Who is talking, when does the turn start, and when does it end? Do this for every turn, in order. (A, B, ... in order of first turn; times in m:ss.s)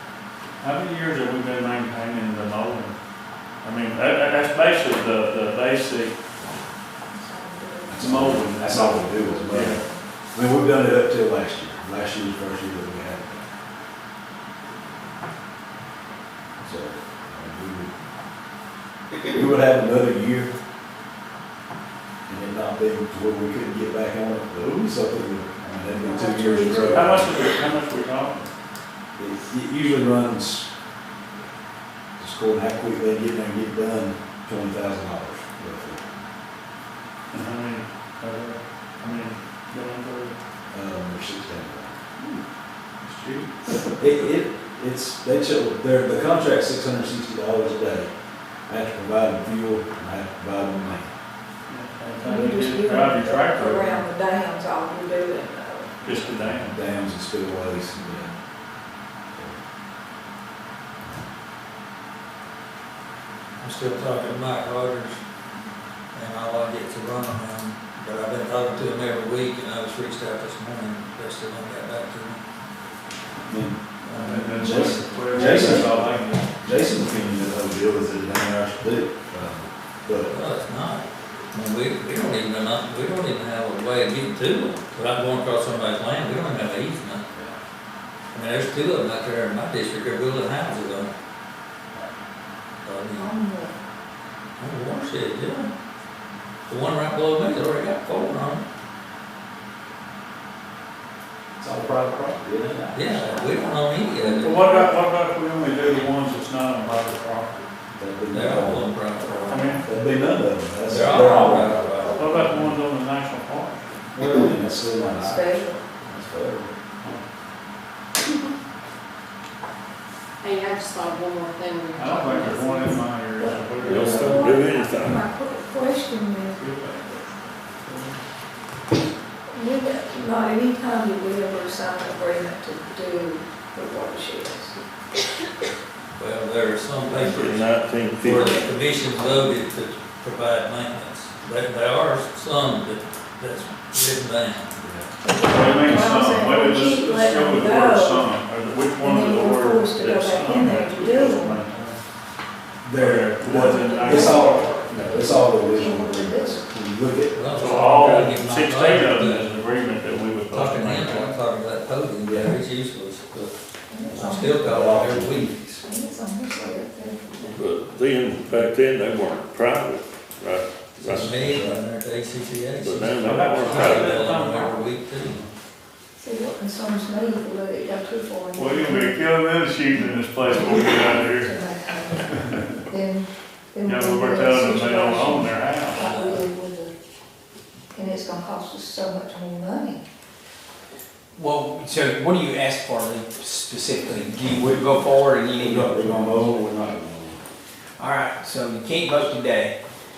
0:00.6-0:03.0 A
0:03.6-0:06.1 A
0:07.1-0:08.3 B
0:07.9-0:09.8 C
0:08.0-0:09.8 A
0:09.1-0:10.0 B
0:10.3-0:13.5 C
0:16.6-0:17.9 C
0:19.1-0:20.6 C
0:22.3-0:27.5 C
0:26.0-0:27.3 B
0:26.8-0:28.5 A
0:29.2-0:30.7 C
0:32.2-0:36.0 C
0:37.3-0:40.4 A
0:40.7-0:42.0 C
0:43.0-0:43.7 A
0:44.0-0:48.1 C
0:48.7-0:51.1 C
0:51.7-0:54.0 A
0:52.2-0:56.0 B
0:56.0-0:56.7 A
0:56.0-0:58.3 C
0:58.0-0:58.3 B
0:59.3-0:59.6 C
1:03.6-1:05.2 D
1:06.1-1:12.4 D
1:13.5-1:13.8 C
1:14.0-1:15.0 D
1:14.1-1:16.5 A
1:14.6-1:20.3 C
1:20.3-1:27.2 D
1:27.3-1:27.6 C
1:28.3-1:31.2 D
1:32.8-1:33.3 D
1:33.2-1:33.8 B
1:34.6-1:35.7 D
1:36.7-1:38.6 D
1:41.6-1:43.6 C
1:42.9-1:44.6 D
1:44.1-1:45.0 B
1:44.4-1:47.7 A
1:47.9-1:49.0 C
1:48.3-1:49.7 D
1:49.2-1:49.8 B
1:49.5-1:49.8 A
1:49.8-1:52.0 C
1:50.8-1:52.7 D
1:51.4-1:52.6 B
1:52.2-1:53.8 A
1:54.1-1:55.4 C
1:55.0-1:55.9 B
1:56.0-1:56.8 C
2:00.4-2:03.1 E
2:01.9-2:04.6 A
2:03.4-2:07.4 B
2:03.8-2:05.3 F
2:06.6-2:07.0 A
2:07.8-2:08.2 A
2:09.5-2:14.8 B
2:16.2-2:17.6 D
2:17.1-2:18.7 F
2:18.2-2:24.8 D
2:18.3-2:18.7 B
2:24.8-2:25.1 C
2:25.2-2:28.3 B
2:25.4-2:32.0 A
2:29.0-2:31.6 B
2:32.8-2:37.4 C
2:32.9-2:35.2 A
2:33.5-2:36.7 B
2:37.3-2:39.5 D
2:37.5-2:41.4 A
2:40.5-2:43.5 D
2:42.2-2:42.6 C
2:43.9-2:44.6 B
2:44.1-2:45.8 D
2:44.6-2:45.6 C
2:45.8-2:47.6 B
2:47.5-2:51.7 F
2:51.0-2:55.4 D
2:51.4-2:51.8 C
2:52.8-2:54.2 F
2:53.2-2:55.5 A
2:56.2-2:59.2 B
2:58.6-3:01.5 A
3:00.6-3:06.9 B
3:03.8-3:06.0 A
3:06.0-3:06.4 D
3:07.9-3:10.0 B
3:11.3-3:16.5 G
3:15.6-3:17.4 C
3:18.0-3:19.8 G